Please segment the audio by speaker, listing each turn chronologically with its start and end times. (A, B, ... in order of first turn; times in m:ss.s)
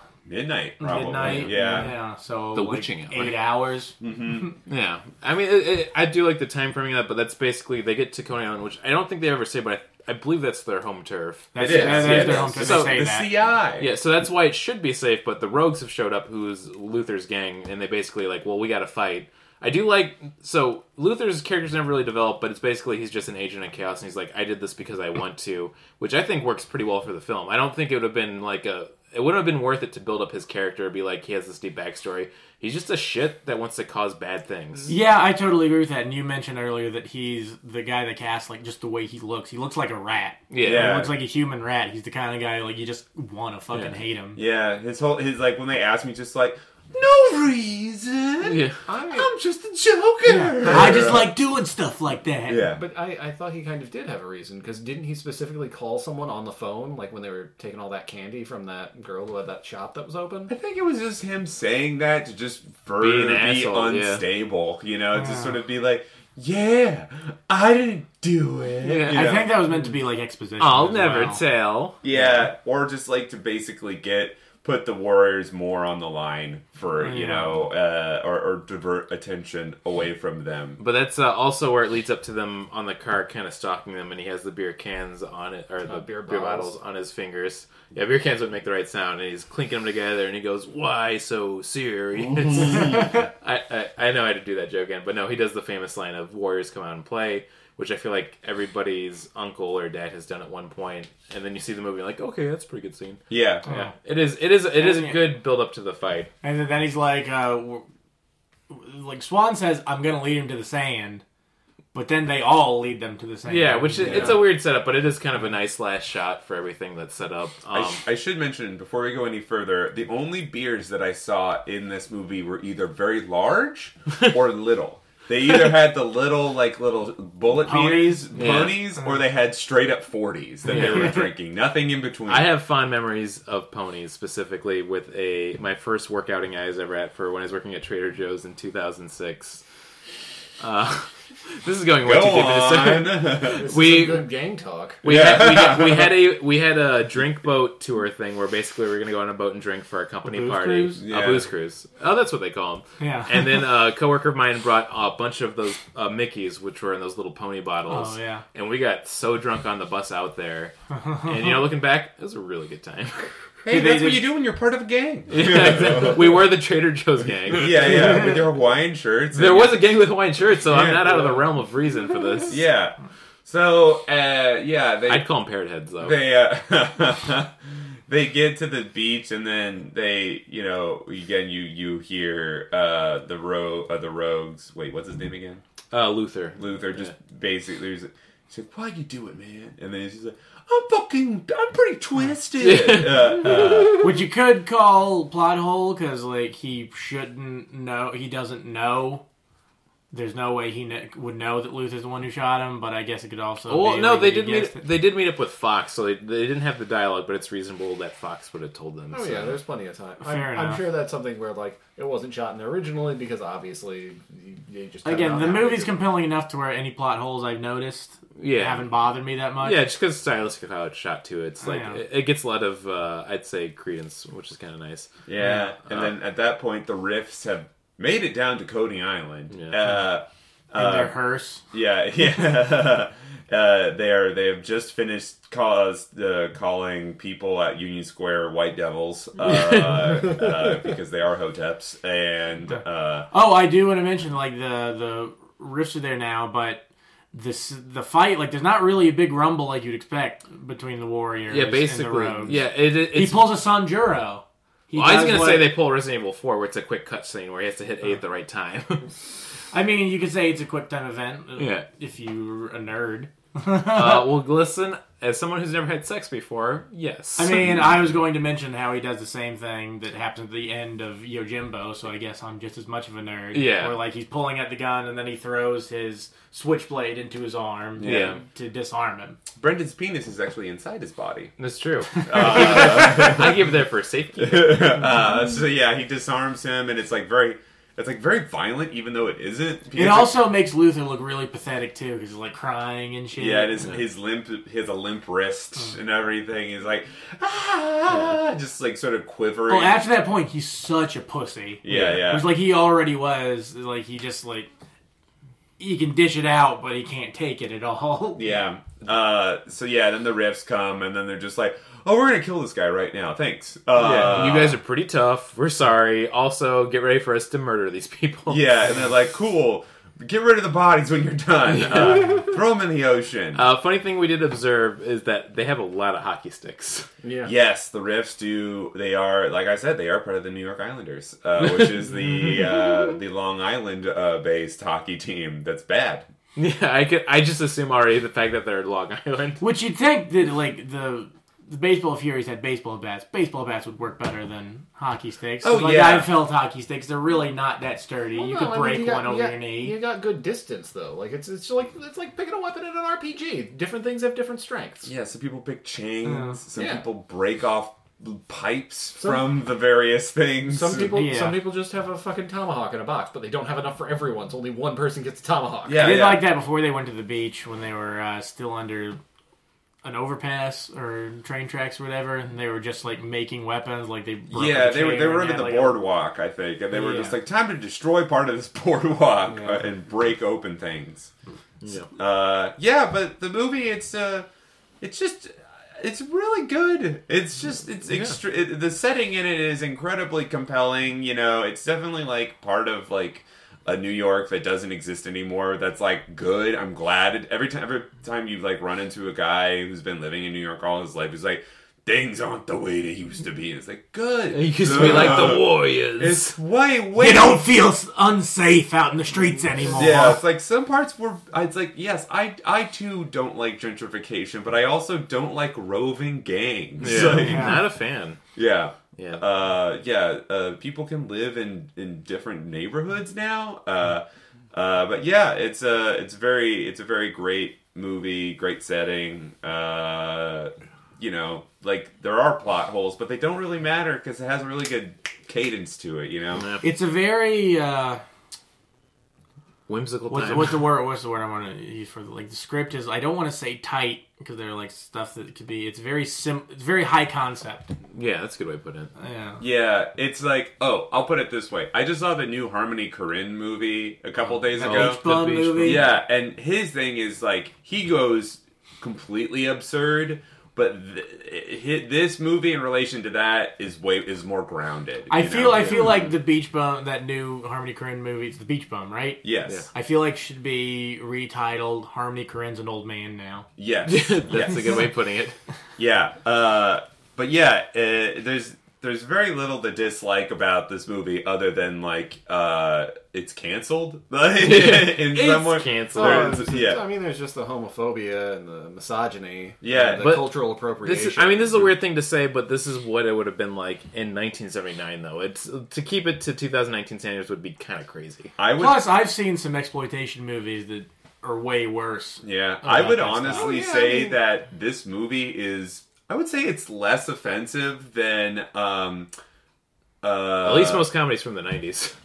0:00.3-0:01.9 A
0:00.8-0:03.9 B
0:01.2-0:01.9 C
0:02.5-0:03.4 C
0:04.0-0:04.5 A
0:04.7-0:13.0 C
0:11.5-0:13.3 B
0:11.6-0:13.9 A
0:13.8-0:34.9 C
0:34.9-0:44.4 B
0:40.5-0:41.0 C
0:40.6-0:41.1 A
0:44.3-0:51.4 A
0:48.4-0:48.8 C
0:48.8-0:49.3 D
0:50.2-0:52.7 B
0:52.4-0:52.8 A
0:52.8-1:00.5 D
1:00.5-1:09.6 A
1:03.0-1:04.2 C
1:05.1-1:05.6 B
1:08.8-1:09.5 C
1:09.1-1:11.4 B
1:10.6-1:12.0 C
1:12.0-1:20.8 A
1:17.0-1:17.6 B
1:20.8-1:46.3 C
1:25.8-1:26.8 D
1:32.2-1:33.2 A
1:43.3-1:43.6 A
1:43.7-1:43.9 B
1:44.7-1:45.2 B
1:46.4-1:47.8 B
1:48.7-1:51.2 B
1:51.9-1:54.4 B
1:53.4-1:58.0 C
1:54.0-1:54.4 A
1:57.7-2:12.5 A
2:07.6-2:09.1 B
2:08.3-2:08.8 C
2:10.7-2:11.2 C
2:10.7-2:11.2 B
2:12.3-2:19.6 C
2:20.6-2:24.3 C
2:22.0-2:23.7 A
2:23.5-2:25.0 D
2:25.0-2:43.3 C
2:25.0-2:26.1 A
2:30.3-2:30.9 B
2:31.0-2:31.5 A
2:33.0-2:33.6 B
2:37.9-2:38.4 B
2:40.9-2:41.6 B
2:43.6-2:46.5 A
2:43.7-2:44.3 B
2:45.3-2:48.3 C
2:47.5-2:49.9 A
2:49.3-2:52.6 C
2:50.7-2:51.4 A
2:52.5-2:55.3 A
2:55.1-2:56.2 C
2:56.0-2:57.5 A
2:58.1-3:05.6 A
3:05.9-3:07.1 C
3:06.6-3:14.2 A
3:12.6-3:14.0 C
3:14.0-3:19.2 B
3:20.1-3:24.8 B
3:23.7-3:29.6 C
3:29.1-3:36.0 D
3:30.2-3:30.8 B
3:35.0-3:39.8 B
3:38.4-3:38.9 C
3:39.6-3:45.1 C
3:41.6-3:42.0 B
3:45.2-3:51.2 A
3:45.4-3:45.7 B
3:49.5-3:49.8 C
3:50.7-3:51.6 B
3:51.7-4:03.3 A
3:59.4-4:00.4 C
4:03.3-4:15.7 B
4:11.5-4:13.6 C
4:15.0-4:19.1 C
4:19.7-4:24.3 B
4:21.6-4:21.8 C
4:23.9-4:27.7 C
4:27.4-4:39.4 B
4:33.5-4:34.0 C
4:38.0-4:38.4 A
4:38.0-4:38.4 C
4:39.6-4:41.5 A
4:41.6-4:45.0 C
4:42.2-4:42.8 B
4:42.2-4:43.6 A
4:44.4-4:50.5 A
4:49.9-4:53.8 B
4:53.3-5:00.1 A
4:59.7-5:04.7 B
5:01.8-5:02.5 A
5:05.8-5:08.6 B
5:08.4-5:14.8 A
5:13.9-5:18.7 C
5:18.5-5:23.6 A
5:21.7-5:22.4 C
5:23.5-5:27.1 C
5:27.2-5:27.5 D
5:27.4-5:36.2 A
5:31.6-5:32.4 C
5:36.6-5:39.6 C
5:39.6-5:50.0 B
5:45.6-5:46.4 A
5:48.3-5:55.1 D
5:55.0-6:01.2 A
5:56.2-5:56.6 B
5:56.8-5:57.0 D
5:59.2-5:59.5 D
6:00.6-6:06.1 D
6:01.1-6:01.6 B
6:05.8-6:06.5 A
6:06.0-6:09.2 B
6:10.0-6:16.0 B
6:14.5-6:21.3 A
6:16.9-6:17.3 B
6:19.5-6:19.8 D
6:21.8-6:22.1 C
6:22.1-6:24.5 A
6:25.0-6:47.7 A
6:28.1-6:28.4 C
6:44.5-6:46.6 C
6:47.2-6:50.4 B
6:49.9-6:57.8 A
6:57.0-6:58.4 C
6:57.1-6:57.8 B
6:58.5-7:16.7 A
6:59.2-6:59.4 C
7:16.5-7:16.8 C
7:16.8-7:18.2 B
7:19.9-7:20.8 C
7:20.3-7:27.9 B
7:28.1-7:29.1 C
7:29.2-7:29.6 B
7:29.6-7:35.2 A
7:34.8-7:36.1 B
7:34.8-7:36.1 C
7:35.8-7:46.3 A
7:45.3-7:53.7 B
7:49.4-7:49.8 A
7:53.8-7:55.1 A
7:54.1-7:55.6 C
7:56.0-8:07.0 A
8:04.6-8:06.6 C
8:06.1-8:12.0 D
8:09.8-8:10.4 A
8:10.2-8:18.5 C
8:18.6-8:19.1 A
8:18.8-8:23.7 B
8:22.4-8:29.3 A
8:23.5-8:24.4 D
8:30.2-8:31.1 A
8:30.6-8:32.1 C